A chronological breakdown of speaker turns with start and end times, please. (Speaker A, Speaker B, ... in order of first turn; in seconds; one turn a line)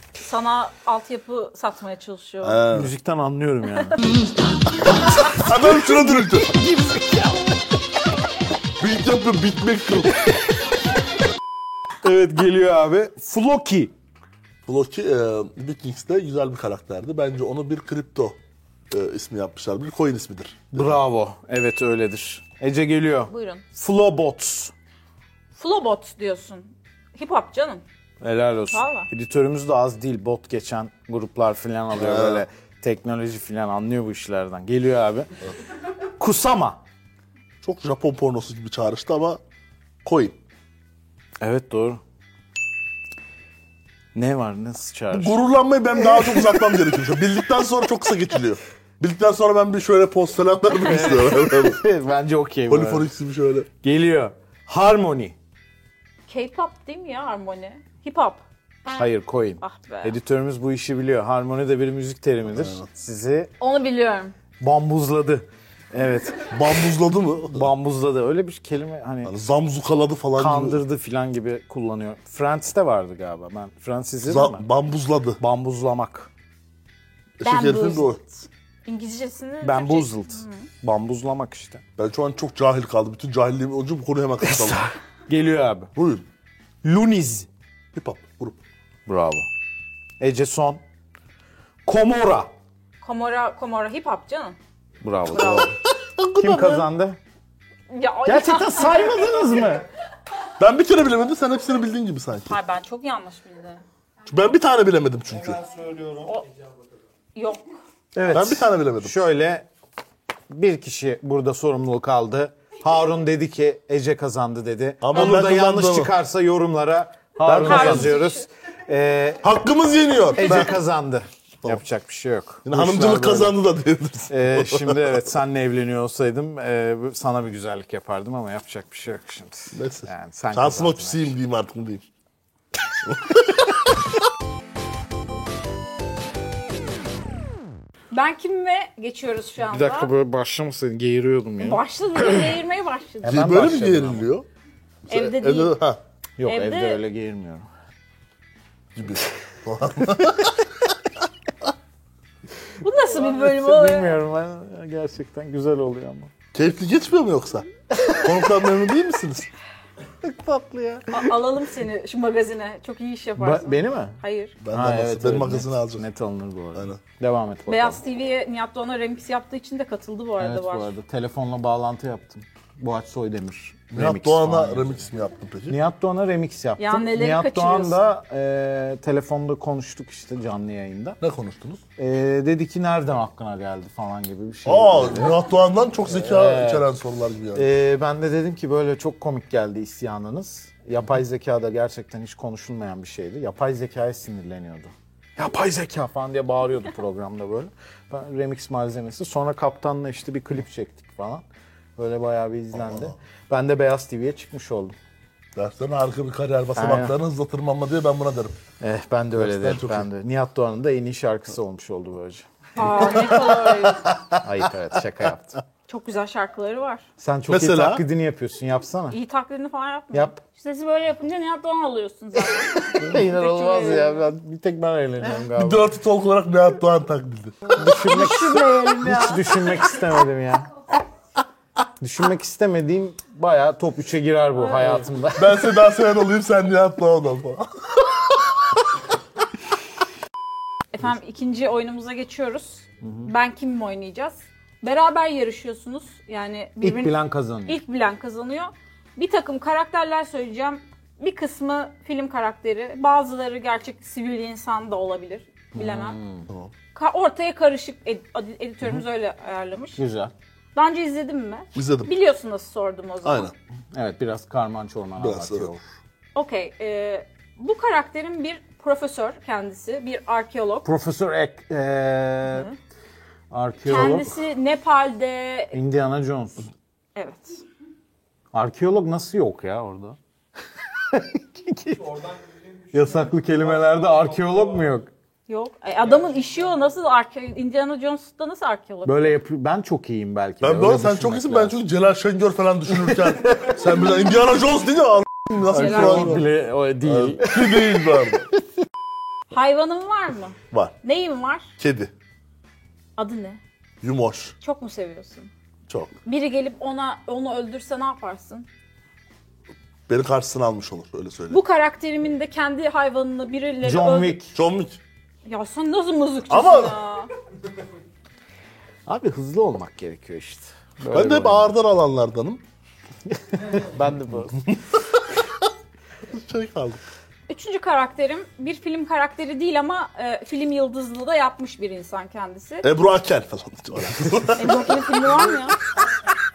Speaker A: 0.2-2.6
Speaker B: 2.4-2.9
Speaker C: 2.7-4.0
Speaker B: 4.8-6.5
Speaker C: 5.1-7.7
Speaker B: 8.8-10.3
Speaker C: 12.0-13.9
Speaker B: 14.7-18.4
Speaker B: 18.9-21.0
Speaker C: 20.7-24.7
Speaker A: 23.3-23.6
Speaker A: 25.5-27.8
Speaker C: 28.2-35.3
Speaker A: 28.7-29.1
Speaker B: 31.9-32.4
Speaker C: 36.2-36.8
Speaker B: 37.6-39.4
Speaker B: 40.0-40.3
Speaker C: 41.4-42.0
Speaker C: 44.1-45.4
Speaker B: 45.1-51.8
Speaker C: 46.0-46.7
Speaker C: 50.8-53.1
Speaker B: 52.7-53.7
Speaker C: 53.8-55.4
Speaker A: 56.3-58.4
Speaker C: 58.9-63.5
Speaker A: 59.6-60.1
Speaker B: 62.5-62.8
Speaker A: 63.6-64.3
Speaker C: 64.6-66.8
Speaker B: 66.5-67.7
Speaker C: 67.5-69.3
Speaker B: 69.2-70.8
Speaker C: 70.4-74.6
Speaker B: 74.2-75.4
Speaker C: 75.4-76.3
Speaker B: 77.4-78.2
Speaker A: 77.4-80.7
Speaker C: 79.6-81.8
Speaker B: 82.0-84.8
Speaker C: 84.4-85.9
Speaker B: 85.9-86.2
Speaker C: 86.8-87.5
Speaker B: 87.9-88.6
Speaker C: 89.1-89.5
Speaker C: 90.2-90.8
Speaker C: 91.8-92.5
Speaker A: 93.0-94.6
Speaker C: 95.0-95.7
Speaker A: 95.3-95.7
Speaker B: 95.3-96.8
Speaker C: 96.3-97.2
Speaker A: 97.9-99.5
Speaker C: 98.2-99.8
Speaker B: 100.6-102.6
Speaker A: 102.4-103.8
Speaker B: 104.2-105.6
Speaker A: 107.3-107.7
Speaker C: 108.1-109.7
Speaker B: 108.3-109.3
Speaker C: 110.5-119.5
Speaker B: 115.0-116.1
Speaker B: 117.4-118.2
Speaker A: 117.6-118.4
Speaker B: 119.4-120.8
Speaker A: 120.3-120.7
Speaker C: 120.3-123.6
Speaker B: 122.7-125.2
Speaker C: 124.3-131.3
Speaker B: 129.7-132.1
Speaker B: 133.0-133.9
Speaker A: 138.1-140.1
Speaker C: 139.6-142.5
Speaker A: 141.6-143.4
Speaker C: 143.2-144.3
Speaker B: 143.2-144.4
Speaker B: 145.1-146.0
Speaker A: 145.1-145.7
Speaker C: 146.4-147.7
Speaker A: 146.4-147.0
Speaker B: 148.9-150.7
Speaker A: 152.8-154.2
Speaker C: 153.2-156.3
Speaker B: 156.5-159.5
Speaker C: 160.2-161.3
Speaker A: 161.1-164.6
Speaker C: 163.4-164.2
Speaker B: 164.6-166.0
Speaker C: 164.7-168.0
Speaker B: 166.7-167.0
Speaker A: 167.7-170.9
Speaker C: 170.4-175.0
Speaker B: 173.9-175.8
Speaker C: 175.7-181.2
Speaker A: 176.8-178.0
Speaker B: 181.2-181.8
Speaker C: 182.0-185.4
Speaker B: 184.7-187.7
Speaker C: 186.1-186.8
Speaker C: 187.5-201.4
Speaker C: 202.0-204.9
Speaker B: 202.7-203.1
Speaker B: 205.6-208.6
Speaker C: 206.8-207.2
Speaker C: 208.8-212.5
Speaker B: 209.3-210.1
Speaker A: 212.8-214.0
Speaker B: 212.8-214.7
Speaker C: 214.4-215.6
Speaker A: 215.9-217.1
Speaker C: 217.2-219.2
Speaker B: 217.5-218.0
Speaker A: 219.1-224.3
Speaker C: 220.1-220.4
Speaker C: 222.4-225.9
Speaker B: 225.5-227.6
Speaker A: 227.7-229.9
Speaker C: 227.8-230.7
Speaker C: 232.0-235.7
Speaker A: 234.6-235.1
Speaker B: 235.3-238.8
Speaker A: 240.9-247.2
Speaker C: 243.0-243.3
Speaker C: 246.8-247.8
Speaker A: 247.7-256.2
Speaker C: 255.7-256.5
Speaker A: 256.9-260.0
Speaker C: 260.0-260.3
Speaker A: 260.7-263.5
Speaker B: 261.7-262.1
Speaker B: 263.2-263.5
Speaker C: 263.9-265.8
Speaker B: 265.2-265.7
Speaker A: 266.3-270.9
Speaker C: 270.8-272.7
Speaker A: 272.5-272.8
Speaker C: 273.5-274.3
Speaker A: 273.9-275.7
Speaker C: 275.7-276.7
Speaker A: 277.1-277.6
Speaker C: 278.5-280.2
Speaker C: 280.9-282.3
Speaker C: 282.9-285.1
Speaker A: 285.5-289.2
Speaker C: 289.1-291.8
Speaker B: 290.6-296.5
Speaker C: 295.6-298.4
Speaker A: 295.6-296.4
Speaker B: 297.0-298.5
Speaker A: 299.5-301.7
Speaker B: 301.8-302.1
Speaker A: 303.2-303.6
Speaker B: 304.0-304.5
Speaker A: 304.6-305.5
Speaker A: 306.2-308.7
Speaker B: 310.1-311.6
Speaker A: 311.5-314.4
Speaker C: 313.8-314.5
Speaker B: 314.5-315.0
Speaker A: 315.4-317.3
Speaker B: 316.5-317.0
Speaker C: 319.1-321.7
Speaker B: 321.1-322.6
Speaker C: 323.5-324.6
Speaker B: 324.6-325.7
Speaker B: 326.3-327.0
Speaker A: 327.5-332.9
Speaker B: 332.8-335.1
Speaker C: 334.3-334.5
Speaker A: 334.6-335.8